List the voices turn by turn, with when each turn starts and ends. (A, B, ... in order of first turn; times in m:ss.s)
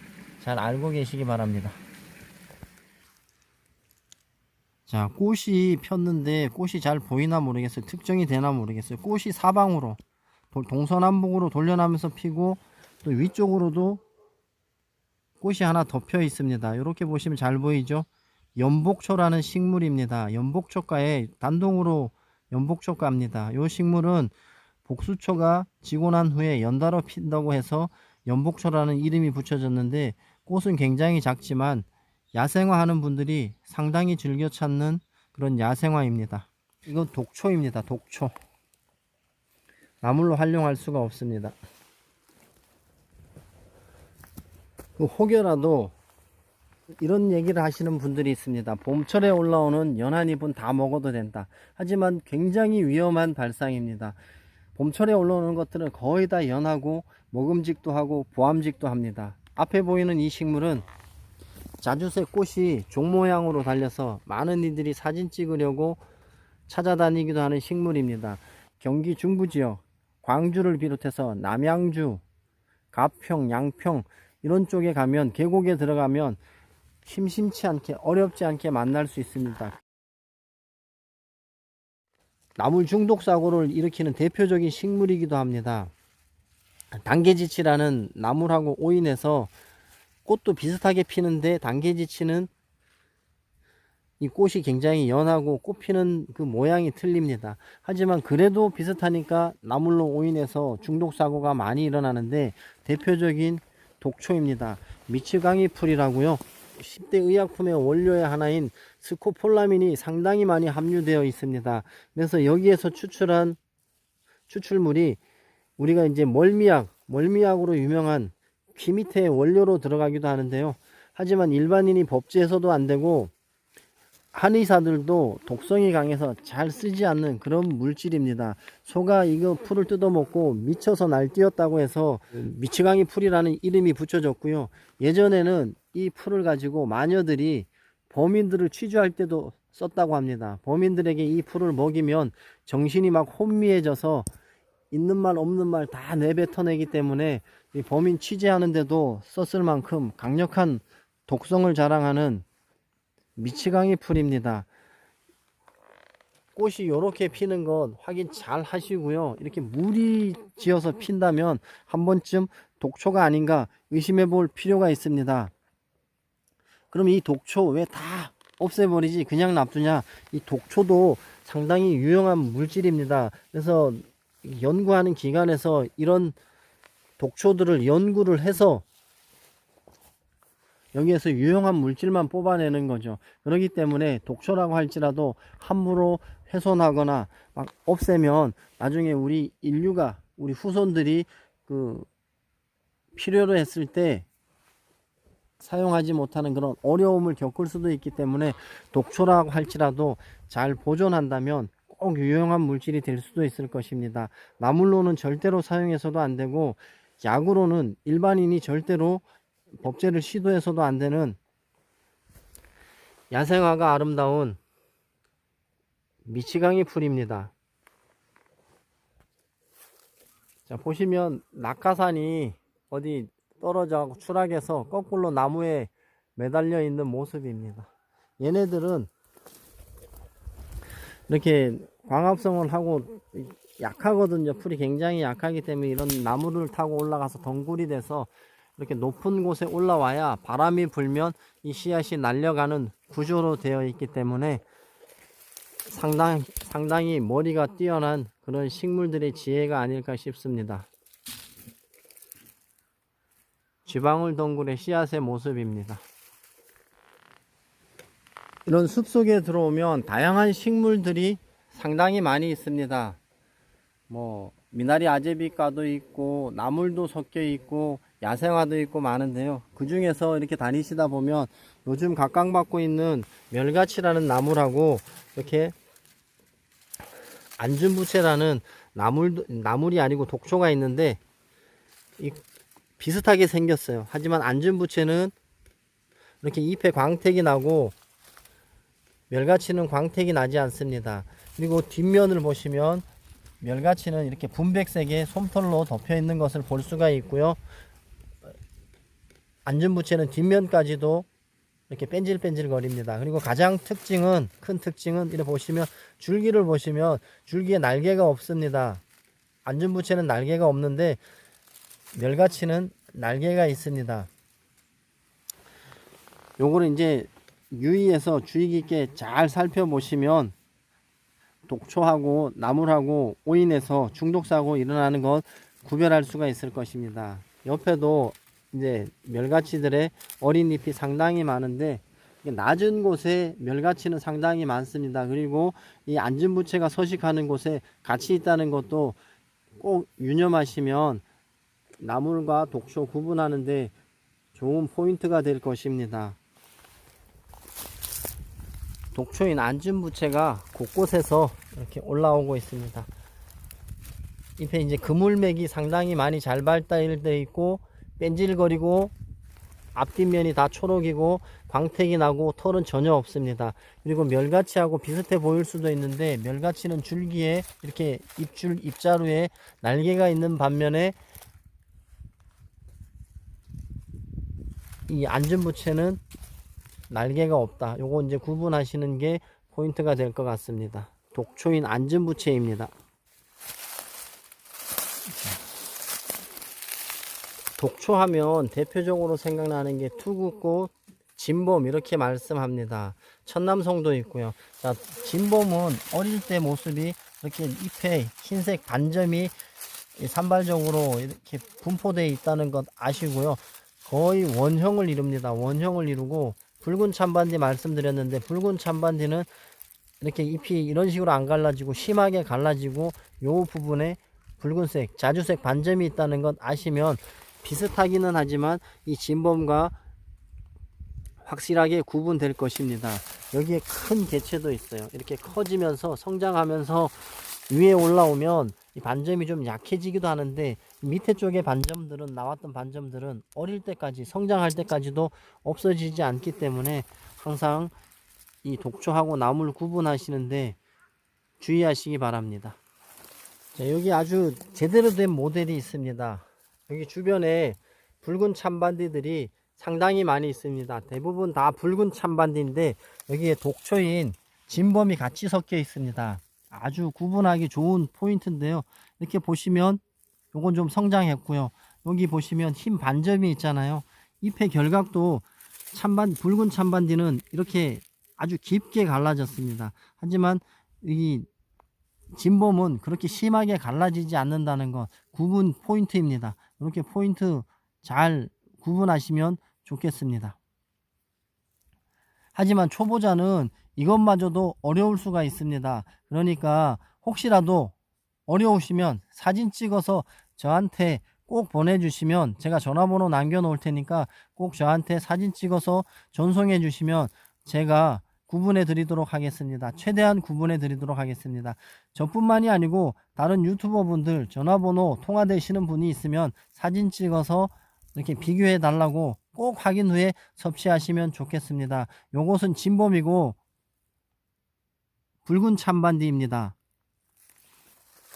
0:00.4-0:01.8 A
0:04.9-0:10.0 A
0:10.5-0:14.0 A
0:15.4-0:24.3 A
0:24.8-0:38.3 A
0:40.0-0:41.6 A
0:45.0-0:45.9 A
0:47.0-0:54.2 A
0:54.8-1:00.8 A
1:01.8-1:06.0 A
1:06.7-1:12.2 A
1:12.9-1:16.4 A
1:17.0-1:19.8 A
1:22.6-1:25.9 A
1:26.9-1:29.5 A
1:30.2-1:32.5 A
1:34.2-1:53.6 A
1:54.5-1:55.2 A
1:55.8-2:03.3 A
2:04.3-2:24.3 A
2:24.9-2:32.4 A
2:33.4-2:34.7 A
2:36.5-2:45.5 A
2:46.9-2:56.4 A
2:57.2-2:58.8 A
3:00.9-3:12.1 A
3:13.1-3:14.2 A
3:15.6-3:29.2 A
3:29.8-3:31.4 A
3:33.3-3:34.6 A
3:36.2-3:37.5 A
3:40.7-3:47.9 A
3:48.4-3:49.1 A
3:51.3-4:04.6 A
4:05.8-4:10.9 A
4:13.8-4:16.0 A
4:18.6-4:23.2 A
4:24.1-4:35.7 A
4:37.6-4:41.2 A
4:43.0-4:45.3 A
4:46.4-4:48.0 A
4:49.3-4:53.0 A
4:53.6-4:57.6 A
4:59.6-5:01.2 A
5:01.9-5:09.0 A
5:09.6-5:11.2 A
5:12.1-5:14.3 A
5:16.6-5:20.5 A
5:21.7-5:39.2 A
5:39.8-5:41.2 A
5:42.0-5:43.9 A
5:44.5-5:46.4 A
5:49.1-5:53.1 A
5:54.6-5:59.1 A
5:59.9-6:11.2 A
6:15.1-6:16.2 A
6:17.1-6:22.9 A
6:25.3-6:25.6 A
6:27.8-6:39.5 A
6:40.2-6:49.5 A
6:50.2-7:00.0 A
7:01.4-7:17.9 A
7:18.6-7:20.8 A
7:21.6-7:22.8 A
7:23.7-7:40.0 A
7:40.5-7:51.5 A
7:52.3-8:00.6 A
8:02.5-8:07.9 A
8:08.5-8:33.6 A
8:35.4-8:36.8 A